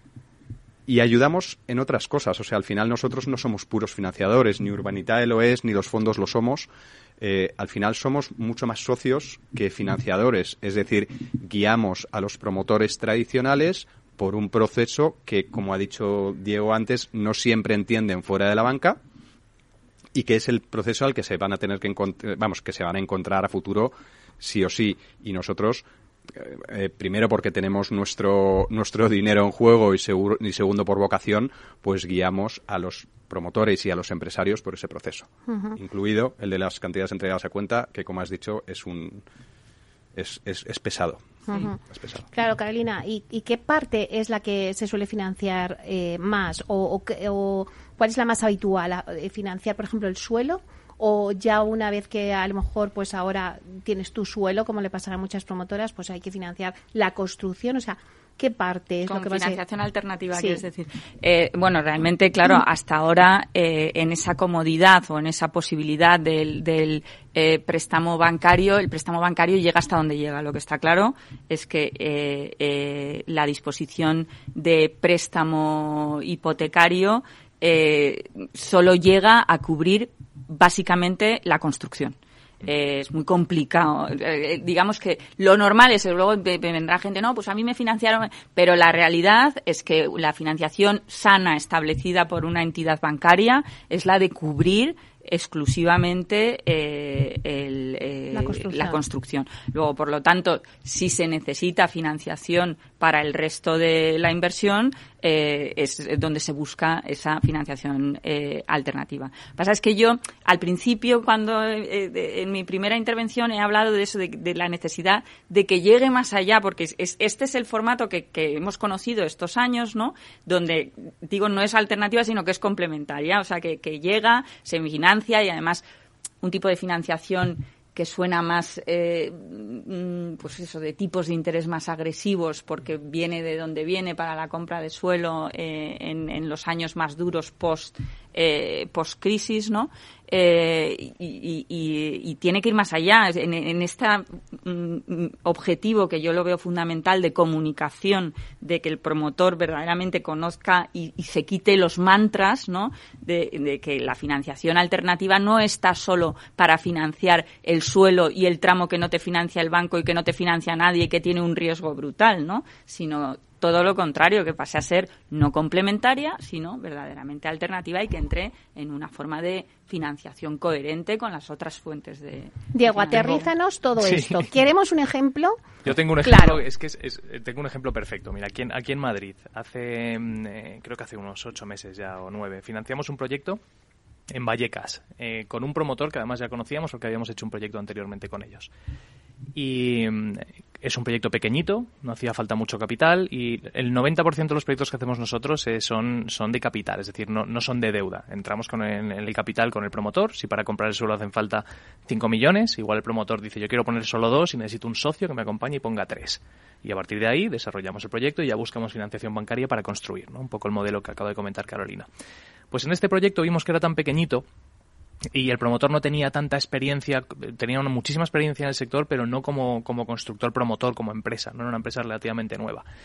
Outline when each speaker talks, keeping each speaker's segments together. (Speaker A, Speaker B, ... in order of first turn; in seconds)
Speaker A: 0.9-19.0, 20.1-39.2, 40.1-41.3, 41.9-42.2
Speaker B: 35.5-35.8, 41.5-41.8, 42.3-59.6, 60.3-60.6, 98.3-99.0, 172.7-176.6
Speaker C: 59.0-125.8, 126.4-173.5
Speaker D: 174.0-174.5, 175.8-183.6, 184.3-188.7, 189.5-212.1, 212.7-214.4, 215.3-222.8